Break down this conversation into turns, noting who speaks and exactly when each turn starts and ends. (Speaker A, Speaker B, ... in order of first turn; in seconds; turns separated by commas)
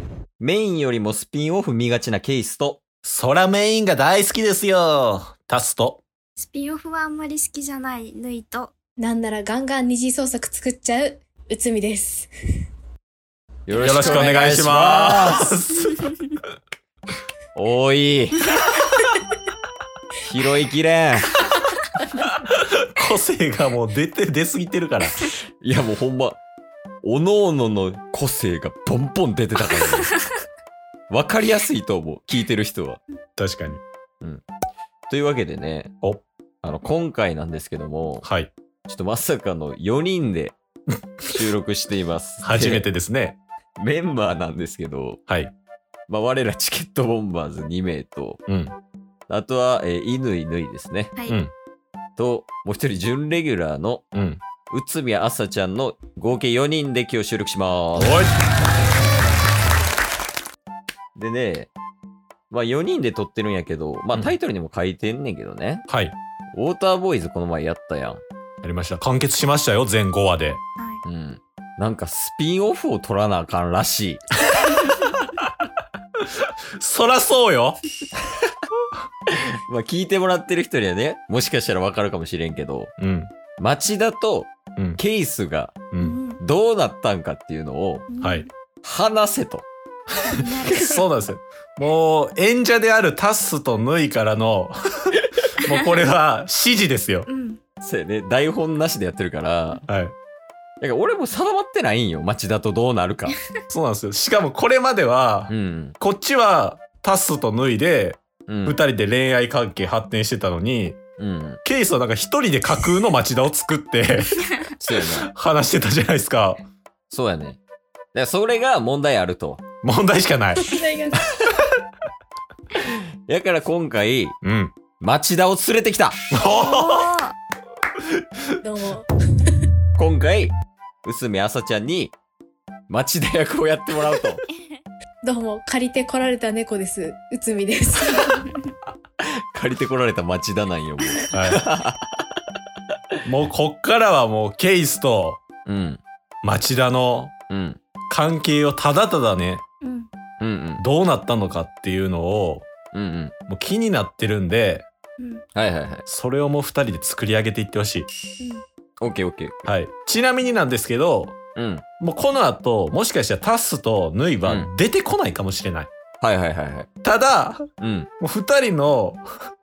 Speaker A: 0.4-2.8, Speaker B: 3.0-6.0, Speaker C: 6.4-8.7, Speaker D: 9.0-12.3, Speaker A: 13.7-15.6, Speaker B: 13.8-15.9, Speaker C: 13.9-14.3, Speaker A: 17.5-18.5, Speaker A: 20.2-21.4, Speaker B: 22.2-25.2, Speaker A: 25.6-26.4, Speaker A: 27.0-30.2, Speaker A: 31.1-33.0, Speaker B: 33.4-33.8, Speaker A: 35.1-35.9, Speaker A: 36.6-38.2, Speaker B: 38.2-38.5, Speaker A: 38.9-40.5, Speaker A: 41.3-42.9, Speaker B: 42.4-43.4, Speaker A: 43.8-45.2, Speaker A: 46.1-48.4, Speaker B: 48.5-48.7, Speaker A: 49.3-51.1, Speaker A: 52.2-54.0, Speaker B: 54.1-54.4, Speaker A: 54.7-58.2, Speaker B: 58.0-58.3, Speaker A: 61.1-61.7, Speaker A: 62.5-65.8, Speaker B: 65.9-66.2, Speaker A: 66.5-68.2, Speaker B: 68.6-70.6, Speaker A: 71.0-74.2, Speaker B: 76.8-77.8, Speaker A: 79.3-82.9, Speaker B: 83.0-83.3, Speaker A: 83.6-85.8, Speaker B: 85.9-86.2, Speaker C: 86.0-86.4, Speaker A: 86.4-88.0, Speaker C: 88.1-88.5, Speaker B: 88.2-88.5, Speaker A: 88.8-89.7, Speaker C: 90.2-91.0, Speaker B: 90.5-97.2, Speaker C: 97.3-97.6, Speaker A: 97.8-99.8, Speaker B: 99.9-100.1, Speaker A: 100.8-103.4, Speaker B: 103.7-111.0, Speaker A: 105.5-105.9, Speaker A: 108.5-108.8, Speaker A: 111.2-111.6, Speaker B: 111.6-114.5, Speaker A: 114.8-115.3, Speaker B: 115.2-116.7, Speaker A: 117.1-117.6, Speaker A: 118.1-119.6, Speaker B: 119.8-120.7, Speaker D: 120.7-121.2, Speaker A: 122.8-124.3, Speaker B: 124.4-124.7, Speaker A: 125.0-126.2, Speaker B: 126.3-127.2, Speaker C: 126.5-127.3, Speaker B: 128.2-128.4, Speaker D: 128.6-129.1, Speaker A: 129.9-130.5, Speaker A: 131.0-132.1, Speaker A: 132.9-134.4, Speaker D: 135.2-138.5, Speaker A: 139.2-142.2, Speaker B: 141.3-141.6, Speaker B: 143.2-145.4, Speaker A: 145.7-146.0, Speaker B: 146.4-147.3, Speaker A: 147.5-147.8, Speaker B: 148.1-149.6, Speaker C: 149.8-150.1, Speaker A: 150.4-150.8, Speaker B: 150.8-152.7, Speaker A: 152.9-153.3, Speaker B: 153.5-154.8, Speaker A: 155.5-156.0, Speaker B: 156.1-158.1, Speaker A: 159.0-159.6, Speaker B: 159.6-161.3, Speaker A: 161.6-161.8, Speaker B: 162.0-165.9, Speaker A: 164.4-164.7, Speaker A: 166.2-166.9, Speaker B: 167.0-167.7, Speaker A: 167.8-168.1, Speaker B: 168.2-169.2